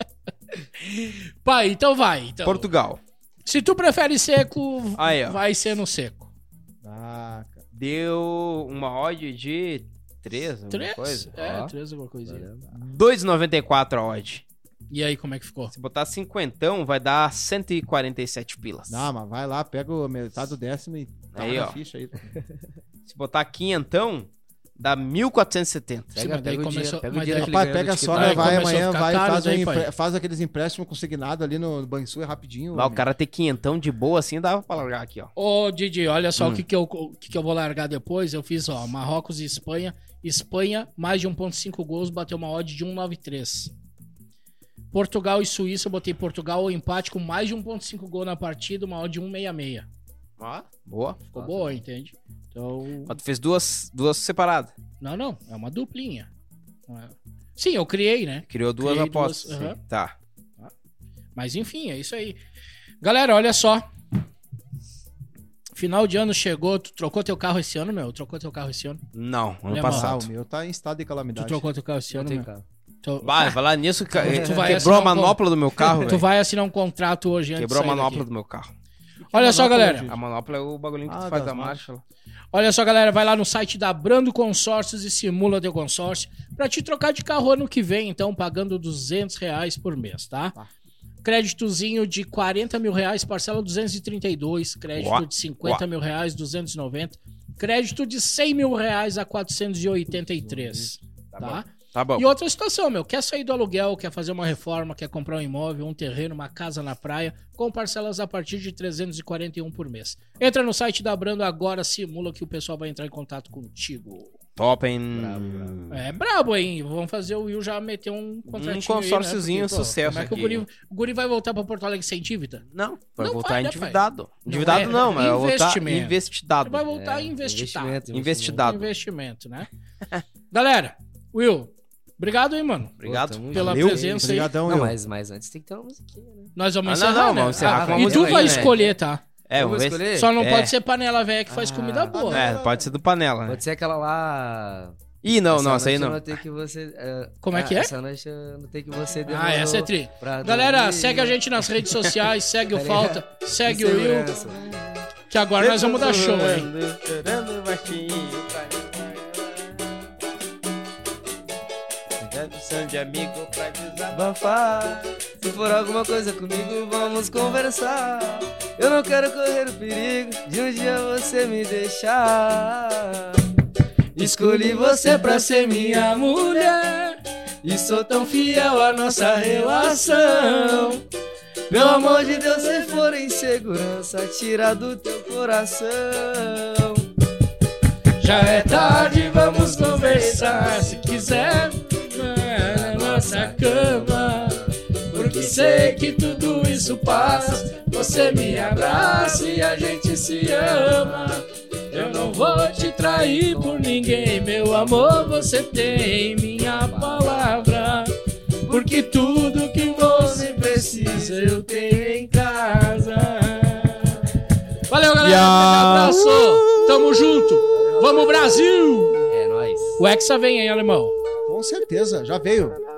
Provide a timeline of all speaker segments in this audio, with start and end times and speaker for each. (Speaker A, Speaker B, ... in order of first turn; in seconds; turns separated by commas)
Speaker A: 0.8-2.7, Speaker B: 2.4-3.0, Speaker A: 3.4-6.3, Speaker B: 5.0-5.4, Speaker C: 6.8-7.6, Speaker B: 7.7-11.3, Speaker A: 10.7-12.4, Speaker D: 11.4-11.7, Speaker D: 12.2-12.7, Speaker C: 12.7-13.0, Speaker B: 12.9-14.4, Speaker A: 14.9-15.7, Speaker B: 15.7-19.0, Speaker C: 18.9-22.2, Speaker B: 21.3-21.8, Speaker B: 23.1-26.2, Speaker D: 26.1-28.8, Speaker A: 26.2-27.6, Speaker C: 27.4-33.0, Speaker A: 28.1-29.9, Speaker B: 32.7-35.3, Speaker A: 35.4-43.7, Speaker B: 36.4-36.6, Speaker A: 44.9-49.9, Speaker B: 50.4-51.2, Speaker A: 51.2-53.1, Speaker D: 51.3-51.8, Speaker B: 53.1-54.7, Speaker A: 55.0-56.3, Speaker A: 56.9-59.8, Speaker B: 58.5-60.1, Speaker A: 61.3-62.4, Speaker A: 63.0-63.9, Speaker A: 65.7-69.0, Speaker B: 69.1-70.3, Speaker A: 69.7-70.1, Speaker C: 69.8-71.7, Speaker A: 71.3-72.5, Speaker D: 72.1-72.6, Speaker A: 73.0-73.6, Speaker B: 73.2-76.3, Speaker A: 74.1-78.3, Speaker D: 74.2-74.8, Speaker B: 77.5-78.7, Speaker C: 79.2-80.2, Speaker A: 79.3-80.1, Speaker B: 80.0-82.0, Speaker C: 81.0-81.8, Speaker A: 82.5-90.5, Speaker A: 91.2-114.4, Speaker B: 95.0-95.8, Speaker C: 100.1-100.9, Speaker D: 101.3-101.6, Speaker B: 101.9-102.2, Speaker B: 114.6-116.1, Speaker D: 115.1-115.8, Speaker A: 115.9-122.6, Speaker B: 118.5-120.6, Speaker B: 122.7-126.8, Speaker A: 123.2-128.0, Speaker D: 126.9-128.7, Speaker B: 128.1-128.9, Speaker A: 128.6-129.7, Speaker A: 130.5-134.5, Speaker B: 133.0-134.0, Speaker D: 133.0-136.5, Speaker C: 134.1-134.9, Speaker A: 136.6-139.2, Speaker B: 136.8-138.8, Speaker D: 137.6-138.9, Speaker B: 139.5-140.7, Speaker D: 139.6-140.3, Speaker A: 140.1-142.4, Speaker D: 141.5-142.2, Speaker C: 142.1-142.9, Speaker B: 142.3-143.6, Speaker D: 143.5-145.0, Speaker B: 145.2-146.4, Speaker D: 145.5-151.4, Speaker A: 147.4-147.9, Speaker A: 149.3-154.4, Speaker B: 151.9-152.2, Speaker D: 152.7-154.8, Speaker A: 155.3-156.7, Speaker B: 155.6-160.1, Speaker B: 162.2-164.8, Speaker D: 164.1-173.4, Speaker D: 174.1-176.8, Speaker A: 174.2-177.2, Speaker D: 177.6-181.0, Speaker A: 178.3-181.0, Speaker D: 181.7-187.1, Speaker A: 181.7-183.0, Speaker A: 188.2-208.1, Speaker D: 188.2-191.8, Speaker D: 192.5-199.9, Speaker D: 200.4-208.1, Speaker D: 208.7-209.1, Speaker A: 208.7-214.3, Speaker D: 209.9-212.3, Speaker A: 214.9-219.3, Speaker B: 215.2-217.1, Speaker D: 217.7-218.3, Speaker D: 219.3-220.0, Speaker A: 220.0-221.1, Speaker C: 221.4-222.8